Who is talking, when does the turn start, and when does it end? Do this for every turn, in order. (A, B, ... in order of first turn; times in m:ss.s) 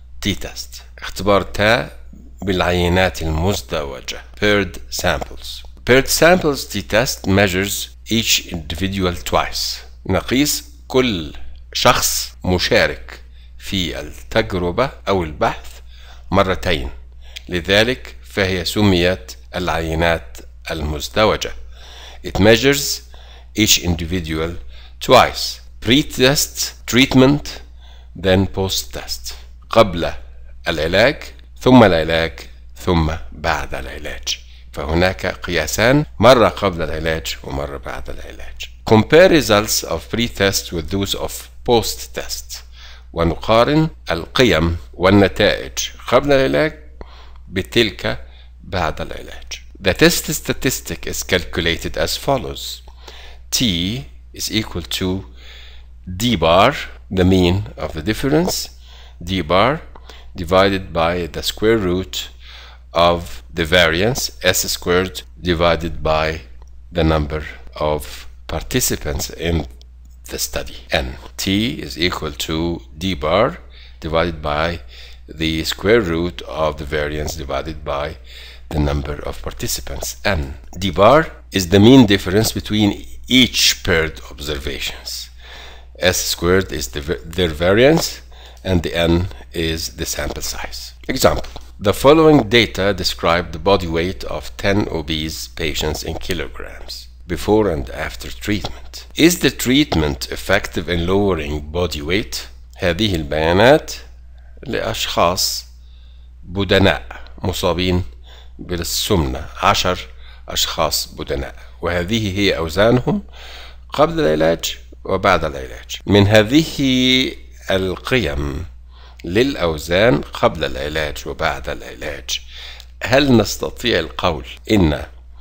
0:00.2-0:16.9 A
0:17.5-0:21.5 A
0:22.2-0:27.6 A
0:28.1-0:46.8 A
0:47.5-0:52.8 A
0:53.5-0:55.3 A
0:56.0-1:02.3 A
1:02.9-1:09.7 A
1:10.3-1:18.2 A
1:18.7-1:25.3 A
1:26.0-1:44.0 A
1:44.6-1:45.7 A
1:46.4-1:53.2 A
1:53.9-1:58.7 A
1:59.2-2:02.4 A
2:03.0-2:05.1 A